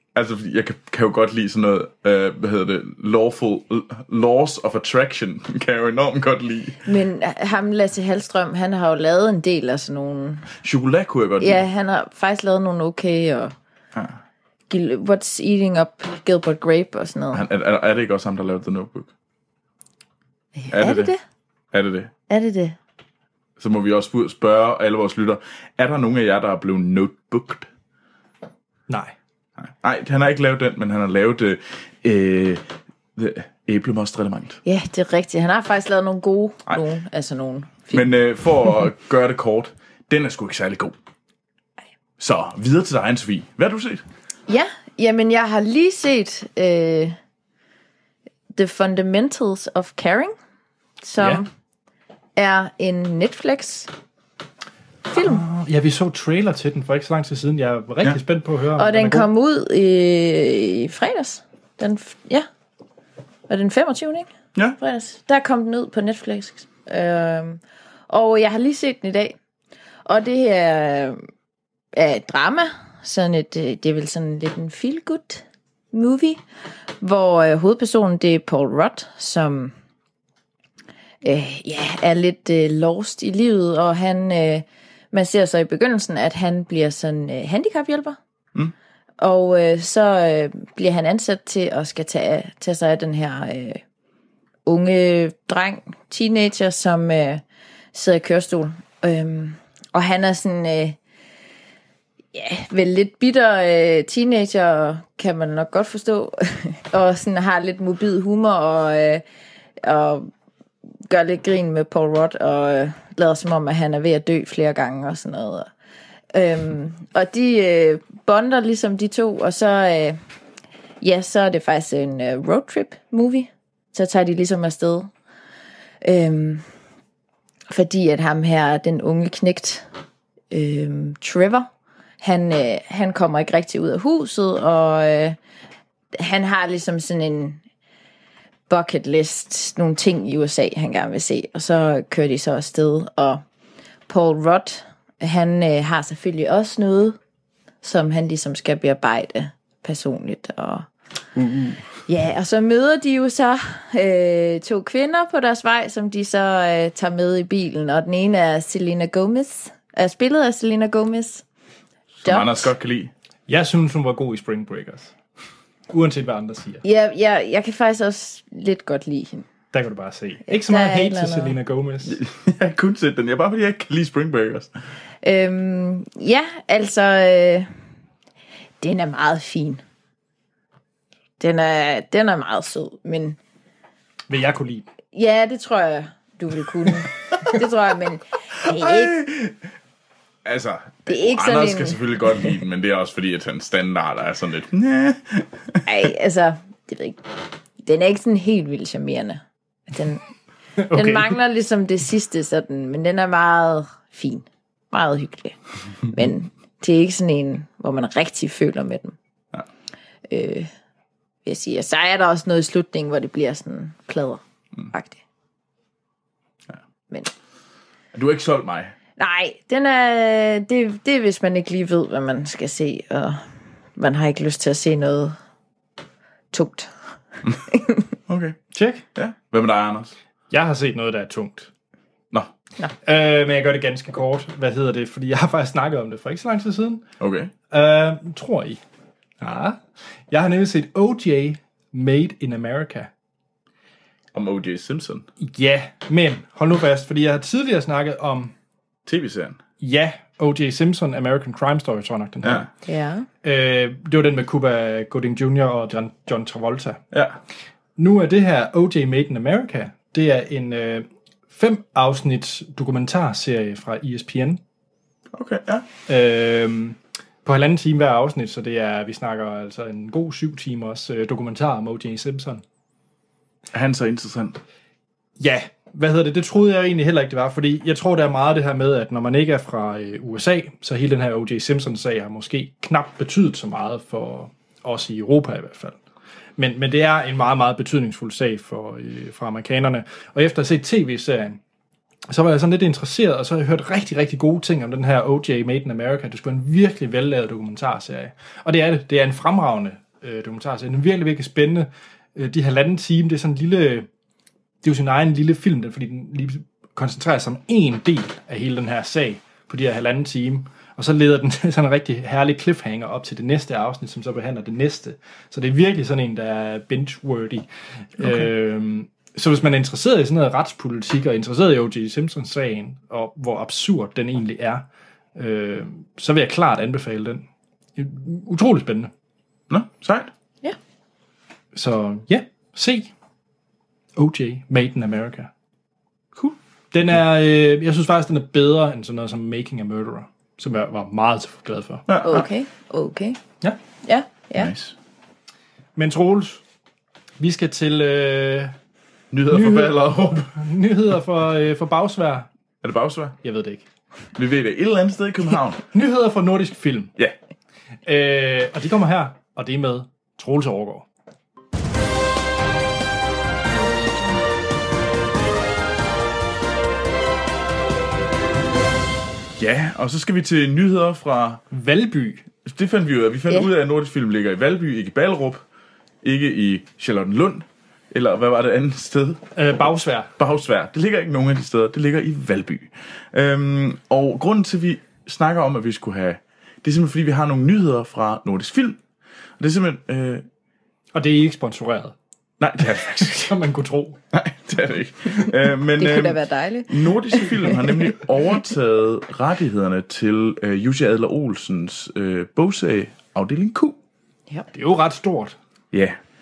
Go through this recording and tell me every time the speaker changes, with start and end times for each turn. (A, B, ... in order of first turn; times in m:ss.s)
0:00.1-0:06.8 A
0:06.8-0:10.5 B
0:10.6-0:11.6 A
0:11.4-0:13.5 B
0:13.9-0:14.2 A
0:14.7-0:17.4 B
0:17.3-0:19.1 A
0:20.6-0:21.2 B
0:20.7-0:21.1 A
0:21.7-0:22.1 A
0:22.3-0:22.8 B
0:23.6-0:27.7 A
0:28.9-0:29.1 C
0:29.6-0:34.6 A
0:34.6-0:38.1 B
0:37.9-0:41.0 A
0:42.2-0:44.0 A
0:44.5-0:47.2 B
0:48.5-0:50.3 B
0:51.0-0:51.5 B
0:51.2-0:51.4 C
0:52.4-0:53.9 B
0:55.1-0:59.3 C
0:55.1-0:55.4 B
0:58.8-1:02.5 B
1:03.5-1:09.3 B
1:10.0-1:11.2 B
1:11.9-1:16.4 B
1:17.0-1:19.7 B
1:21.2-1:28.2 B
1:29.2-1:33.8 B
1:34.6-1:37.4 B
1:37.9-1:41.0 B
1:42.3-1:49.2 B
1:49.8-1:50.3 B
1:51.1-1:55.7 B
1:56.3-2:00.2 B
2:01.0-2:05.1 B
2:06.0-2:06.6 B
2:07.7-2:09.8 B
2:10.5-2:11.7 B
2:12.2-2:15.4 B
2:16.2-2:17.6 B
2:18.7-2:23.4 B
2:24.1-2:27.2 B
2:27.8-2:30.9 B
2:31.3-2:31.8 A
2:32.1-2:41.4 B
2:42.2-2:43.1 A
2:42.2-2:42.7 B
2:43.5-2:45.1 C
2:45.9-2:46.8 C
2:46.8-2:49.4 B
2:49.7-2:52.2 C
2:50.5-2:51.6 B
2:52.0-2:54.7 A
2:55.2-2:57.7 B
2:58.8-2:59.8 B
3:01.4-3:03.4 B
3:04.3-3:04.9 C
3:05.1-3:09.2 B
3:08.6-3:09.6 A
3:10.4-3:15.8 A
3:11.1-3:12.0 B
3:15.8-3:17.2 B
3:17.8-3:20.2 B
3:20.8-3:21.4 C
3:20.9-3:29.2 B
3:30.3-3:30.7 B
3:31.4-3:35.2 B
3:38.1-3:38.9 A
3:39.2-3:43.4 B
3:44.0-3:45.4 B
3:46.5-3:46.9 B
3:47.7-3:48.0 B
3:48.3-3:48.6 A
3:48.7-3:49.0 C
3:49.1-3:50.1 A
3:50.5-3:51.7 C
3:53.0-3:57.0 C
3:57.2-3:57.5 A
3:57.7-3:58.8 C
3:59.4-4:03.1 C
4:04.3-4:05.3 A
4:05.4-4:08.5 C
4:09.0-4:09.6 A
4:09.8-4:12.7 C
4:12.4-4:12.7 A
4:12.8-4:13.3 B
4:13.4-4:17.0 C
4:17.1-4:17.4 A
4:18.0-4:24.6 C
4:25.3-4:25.8 A
4:26.1-4:32.6 C
4:33.7-4:34.6 A
4:35.4-4:46.0 C
4:46.6-4:51.6 C
4:52.3-5:04.1 C
5:04.8-5:17.7 C
5:18.2-5:27.4 C
5:28.0-5:29.1 C
5:29.7-5:30.3 A
5:31.7-5:33.1 C
5:34.2-5:35.5 C
5:36.9-5:42.1 C
5:42.1-5:42.5 A
5:42.2-5:43.4 B
5:44.0-5:44.7 B
5:44.5-5:44.9 A
5:46.0-5:46.6 C
5:47.4-5:48.7 C
5:49.3-5:50.5 A
5:49.5-5:52.5 C
5:52.8-5:53.4 A
5:53.4-5:53.8 C
5:54.3-5:55.8 A
5:55.9-5:57.1 C
5:58.0-6:01.1 C
6:03.9-6:04.2 C
6:09.6-6:11.6 A
6:11.7-6:12.4 C
6:12.6-6:15.6 A
6:16.2-6:19.4 A
6:19.6-6:20.3 C
6:20.4-6:29.0 A
6:29.6-6:30.4 A
6:31.1-6:32.1 C
6:32.6-6:33.5 A
6:33.1-6:34.2 C
6:34.3-6:44.0 A
6:36.0-6:38.0 B
6:44.7-6:45.6 C
6:45.9-6:46.2 A